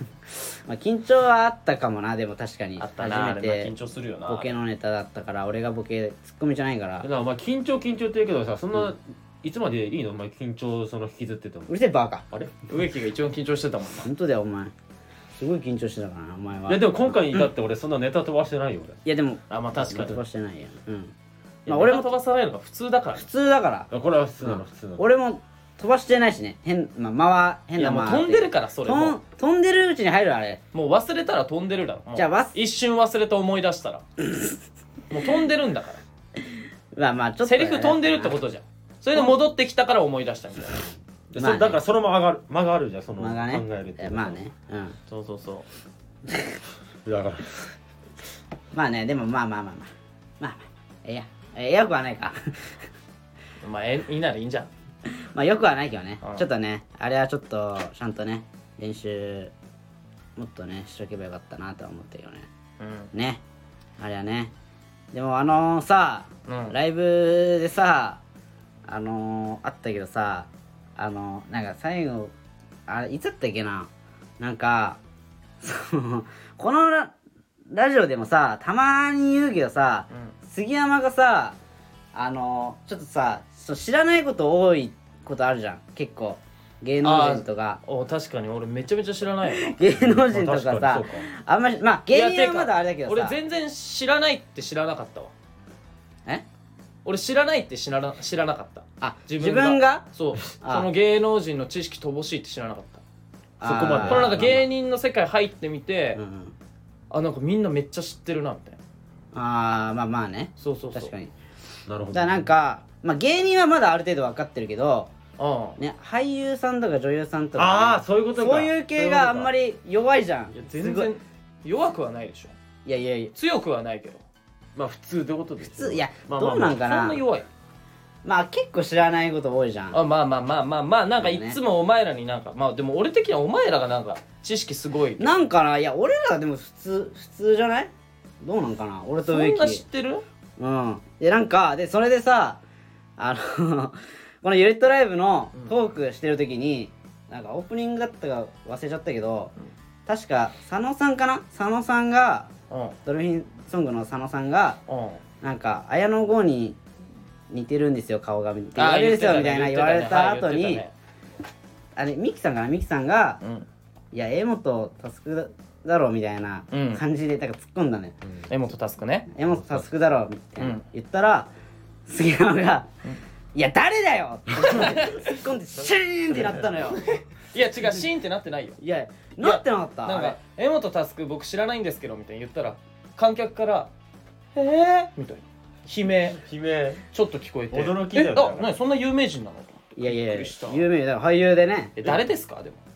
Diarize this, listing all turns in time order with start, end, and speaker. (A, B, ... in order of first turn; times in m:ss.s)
0:00.4-0:03.7 A
0:02.8-0:04.6 B
0:04.3-0:07.0 A
0:07.0-0:11.7 C
0:11.7-0:12.2 A
0:12.7-0:14.1 B
0:14.0-0:14.7 A
0:15.4-0:17.1 A
0:16.7-0:19.0 C
0:19.0-0:21.1 A
0:19.5-0:20.2 B
0:19.8-0:20.2 C
0:21.7-0:22.1 A
0:21.7-0:23.2 B
0:23.2-0:23.9 A
0:23.9-0:25.0 C
0:24.4-0:30.6 A
0:27.8-0:29.2 B
0:30.7-0:34.0 B
0:32.1-0:32.5 A
0:35.1-0:36.0 B
0:36.9-0:38.3 A
0:37.4-0:40.9 B
0:41.3-0:44.4 C
0:41.4-0:41.8 A
0:43.2-0:45.0 A
0:45.1-0:45.6 B
0:47.0-0:47.7 C
0:48.7-0:49.9 A
0:50.4-0:52.7 A
0:53.6-0:54.7 B
0:55.1-0:59.5 A
1:00.4-1:02.5 A
1:02.8-1:03.1 B
1:03.1-1:03.4 A
1:04.0-1:04.5 A
1:05.1-1:08.2 A
1:06.5-1:06.8 B
1:08.8-1:12.3 A
1:12.9-1:15.0 A
1:15.6-1:17.1 A
1:17.7-1:21.6 A
1:22.1-1:27.8 A
1:27.0-1:29.7 B
1:29.5-1:33.4 A
1:29.9-1:31.3 C
1:32.1-1:35.3 B
1:37.0-1:43.0 B
1:39.0-1:40.0 A
1:40.6-1:40.9 A
1:43.6-1:44.6 A
1:43.6-1:44.6 C
1:44.0-1:46.2 B
1:46.2-1:46.5 A
1:47.1-1:48.8 B
1:49.3-1:51.3 A
1:50.6-1:51.1 B
1:51.9-1:52.5 C
1:52.1-1:55.1 A
1:55.4-1:55.8 B
1:55.8-2:01.1 A
1:57.6-1:59.5 C
2:00.5-2:02.5 B
2:02.8-2:03.3 A
2:03.3-2:04.2 B
2:04.7-2:06.8 C
2:05.6-2:07.2 A
2:06.8-2:07.4 B
2:08.2-2:10.0 A
2:09.9-2:15.4 B
2:11.2-2:11.6 A
2:15.2-2:19.8 A
2:19.2-2:20.2 B
2:20.6-2:22.6 A
2:23.2-2:29.5 A
2:30.1-2:32.5 A
2:32.7-2:33.0 B
2:33.0-2:34.8 A
2:34.9-2:35.2 B
2:35.4-2:36.8 A
2:37.5-2:40.8 A
2:38.8-2:40.9 B
2:42.0-2:43.4 A
2:43.4-2:43.7 B
2:44.1-2:48.2 A
2:46.7-2:47.0 B
2:48.5-2:49.3 B
2:49.3-2:51.5 A
2:49.5-2:49.9 C
2:50.6-2:50.8 B
2:52.1-2:52.9 A
2:53.5-2:57.0 A
2:54.6-2:55.4 B
2:56.3-2:56.7 C
2:57.0-2:58.8 B
2:58.8-3:00.4 A
2:59.4-3:03.9 B
3:04.5-3:06.4 B
3:06.4-3:07.0 C
3:07.1-3:10.8 B
3:07.7-3:08.7 C
3:10.0-3:12.0 A
3:12.0-3:12.8 B